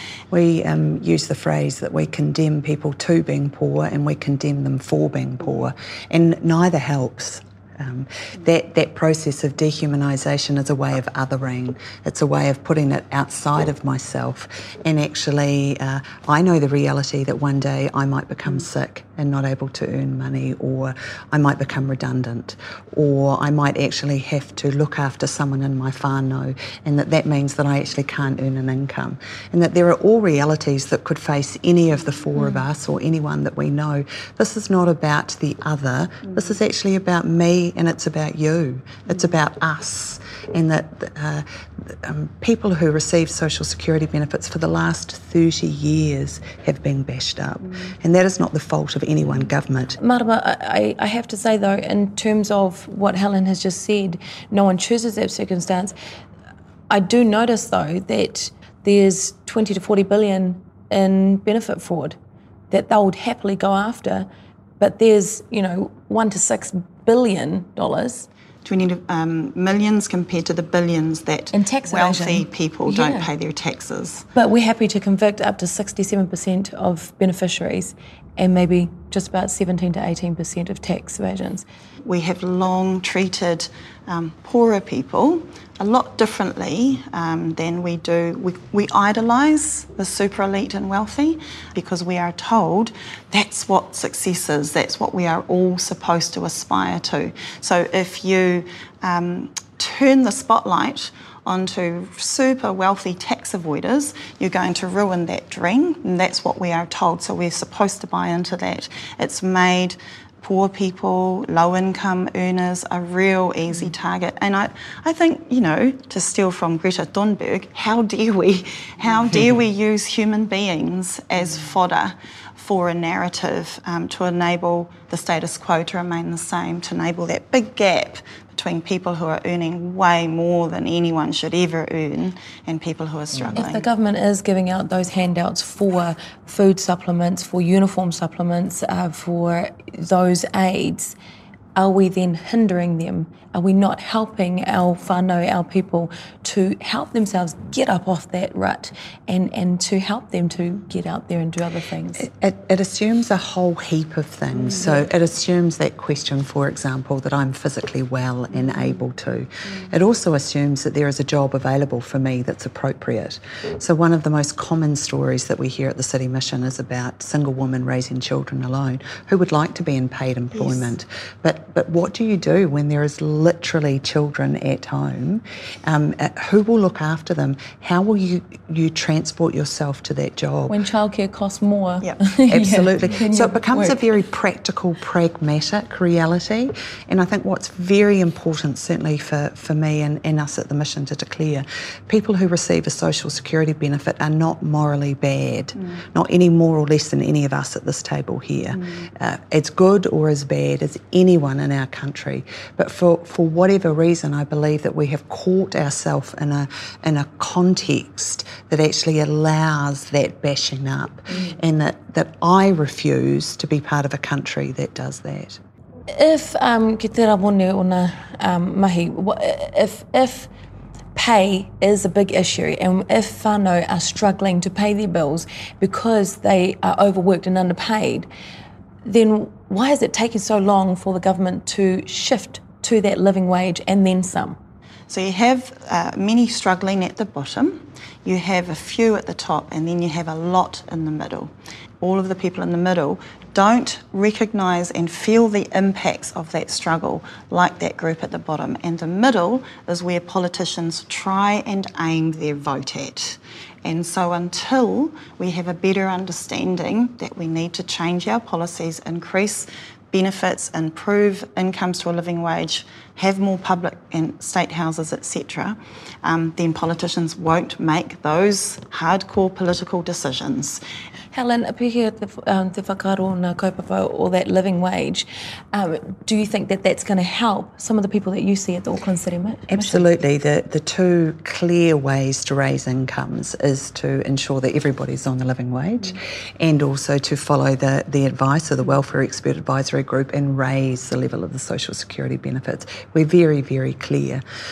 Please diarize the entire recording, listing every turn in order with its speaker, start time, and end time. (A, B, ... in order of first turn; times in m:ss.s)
0:00.3-0:50.0 A
0:50.0-0:56.0 B
0:56.9-1:02.2 B
1:02.7-1:04.3 B
1:04.8-1:08.3 B
1:08.6-1:14.3 C
1:11.5-1:13.3 B
1:14.4-1:21.6 B
1:22.0-2:13.8 C
2:13.6-2:21.2 B
2:21.8-2:32.3 B
2:32.2-3:00.8 A
2:50.6-2:50.9 C
3:00.7-3:04.0 B
3:02.5-3:35.6 A
3:36.1-3:40.5 B
3:41.2-3:48.3 B
3:49.0-3:54.6 B
3:55.1-4:30.8 C
4:31.3-4:40.0 B
4:39.7-4:54.4 A